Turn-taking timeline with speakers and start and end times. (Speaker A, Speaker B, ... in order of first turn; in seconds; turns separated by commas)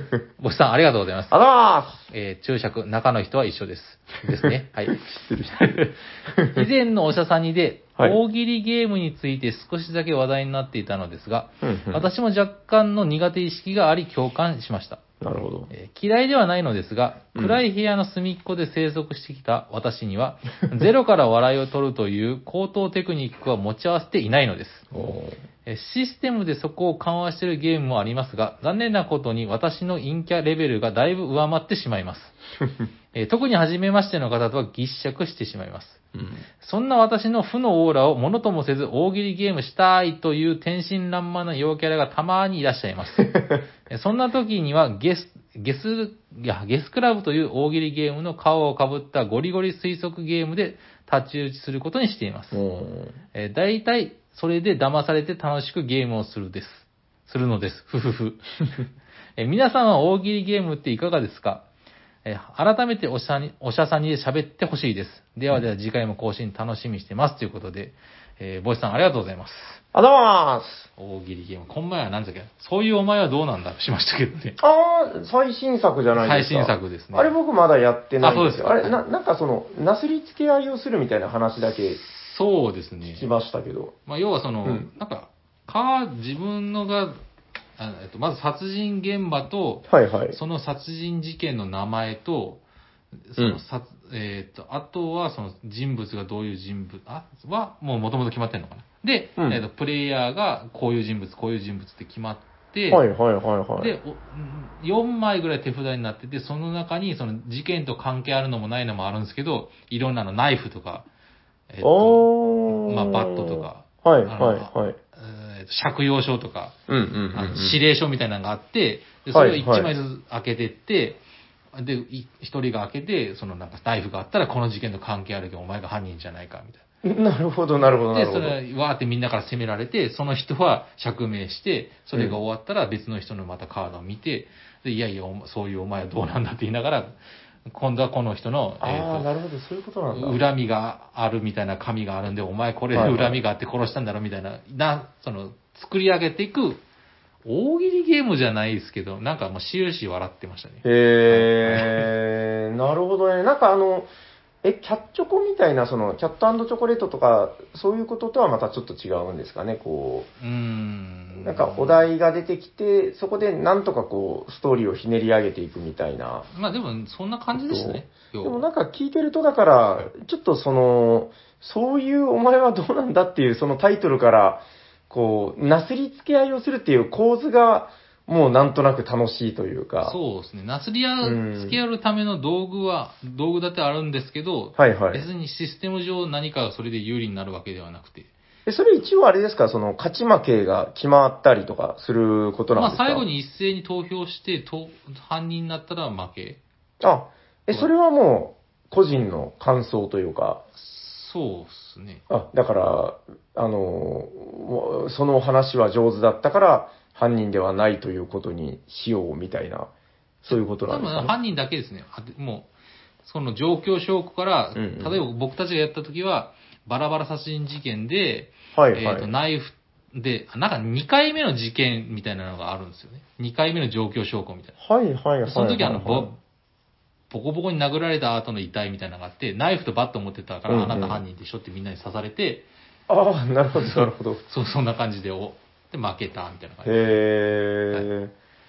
Speaker A: 0.4-1.4, Speaker B: 1.3-2.0, Speaker A: 2.1-5.0, Speaker B: 4.9-6.7, Speaker A: 5.5-15.0, Speaker B: 11.6-12.1, Speaker B: 15.2-15.7, Speaker A: 15.7-24.9, Speaker B: 17.4-17.6, Speaker B: 24.9-25.4, Speaker A: 25.7-32.4, Speaker A: 33.1-36.0, Speaker B: 36.1-36.4, Speaker A: 36.6-43.3, Speaker B: 43.2-43.6, Speaker A: 43.9-52.6, Speaker B: 52.5-53.2, Speaker A: 53.3-58.6, Speaker A: 59.4-61.6, Speaker A: 62.2-69.8, Speaker B: 69.9-70.9, Speaker A: 71.0-74.6, Speaker B: 74.6-82.0, Speaker A: 76.2-77.3, Speaker A: 78.2-79.0, Speaker A: 82.0-83.3, Speaker B: 83.2-84.0, Speaker A: 84.1-87.2, Speaker A: 87.8-92.6, Speaker B: 89.9-90.4, Speaker A: 93.3-103.0, Speaker B: 102.9-103.9, Speaker A: 103.8-111.1, Speaker A: 111.7-116.8, Speaker B: 111.8-115.0, Speaker B: 116.9-117.8, Speaker A: 117.3-121.2, Speaker B: 119.3-119.9, Speaker A: 121.7-126.8, Speaker B: 127.0-128.6, Speaker A: 127.8-139.3, Speaker B: 138.8-140.4, Speaker A: 140.1-146.8, Speaker B: 142.9-143.4, Speaker A: 147.4-152.1, Speaker B: 150.8-154.1, Speaker B: 154.6-160.3, Speaker A: 160.4-162.0, Speaker B: 161.4-166.5, Speaker A: 166.5-168.7, Speaker B: 167.5-180.2, Speaker A: 180.0-188.3, Speaker B: 181.2-181.8, Speaker B: 184.8-185.3, Speaker B: 188.7-193.2, Speaker A: 192.8-196.6, Speaker B: 197.0-200.6, Speaker A: 200.8-202.2, Speaker B: 202.3-209.9, Speaker B: 210.4-211.3, Speaker A: 210.5-212.7, Speaker A: 213.2-224.8, Speaker B: 214.8-215.2, Speaker B: 218.8-219.3, Speaker B: 224.8-226.4, Speaker A: 225.4-226.3, Speaker A: 227.3-232.7, Speaker B: 230.7-231.2, Speaker B: 233.1-234.4, Speaker A: 233.8-237.2, Speaker B: 236.8-238.3